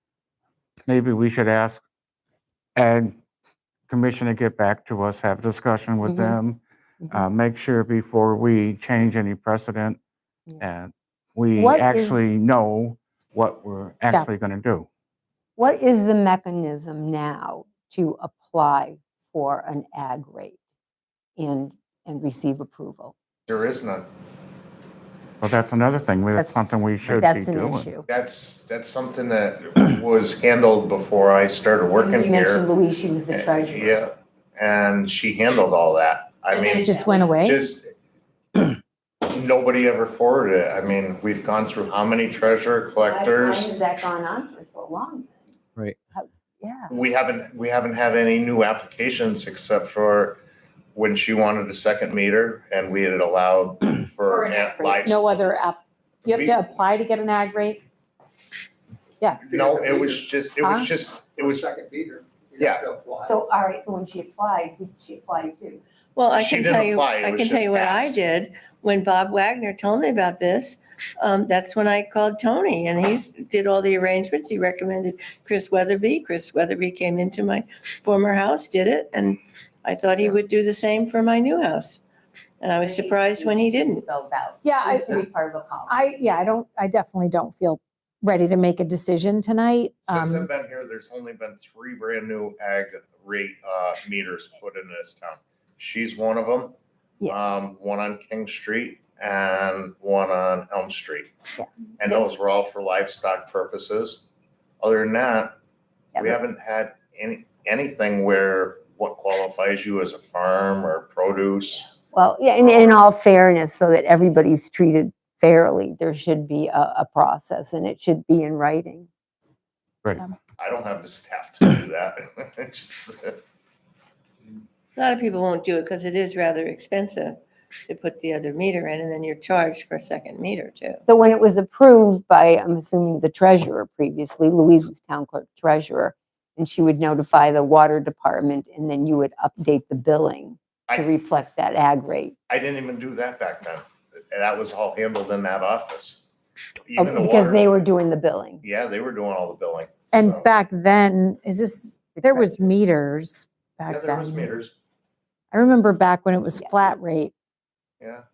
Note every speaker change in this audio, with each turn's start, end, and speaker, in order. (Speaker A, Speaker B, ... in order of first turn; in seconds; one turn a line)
Speaker A: 0.9-1.8
Speaker A: 2.8-3.1
Speaker A: 3.9-10.0
Speaker A: 10.6-14.9
Speaker B: 11.5-12.3
Speaker B: 15.6-20.6
Speaker B: 21.4-23.1
Speaker C: 23.5-24.1
Speaker A: 25.4-28.0
Speaker B: 26.3-28.1
Speaker C: 28.1-32.7
Speaker B: 31.9-34.0
Speaker C: 33.3-37.9
Speaker B: 36.5-37.2
Speaker D: 36.6-37.6
Speaker C: 39.2-43.7
Speaker B: 43.0-45.5
Speaker D: 46.6-46.9
Speaker C: 46.9-50.4
Speaker C: 50.9-55.4
Speaker D: 54.3-57.8
Speaker C: 56.3-56.6
Speaker C: 59.5-61.7
Speaker E: 59.5-60.1
Speaker D: 60.6-60.9
Speaker E: 61.5-63.2
Speaker C: 62.6-63.0
Speaker B: 63.2-65.8
Speaker F: 66.2-82.0
Speaker C: 66.3-68.2
Speaker F: 82.6-84.0
Speaker B: 82.8-86.1
Speaker D: 84.6-85.2
Speaker D: 85.9-90.5
Speaker C: 90.1-101.3
Speaker B: 101.6-102.2
Speaker C: 102.0-104.3
Speaker C: 104.8-105.6
Speaker C: 106.1-111.9
Speaker B: 112.1-119.1
Speaker C: 112.6-113.0
Speaker C: 120.6-123.4
Speaker F: 125.0-131.0
Speaker B: 131.0-142.3
Speaker C: 142.5-146.2
Speaker C: 146.8-147.7
Speaker B: 147.0-148.6
Speaker C: 148.6-150.5
Speaker D: 150.1-154.5
Speaker B: 152.2-152.6
Speaker C: 153.9-154.7
Speaker D: 155.5-157.3
Speaker B: 156.6-156.9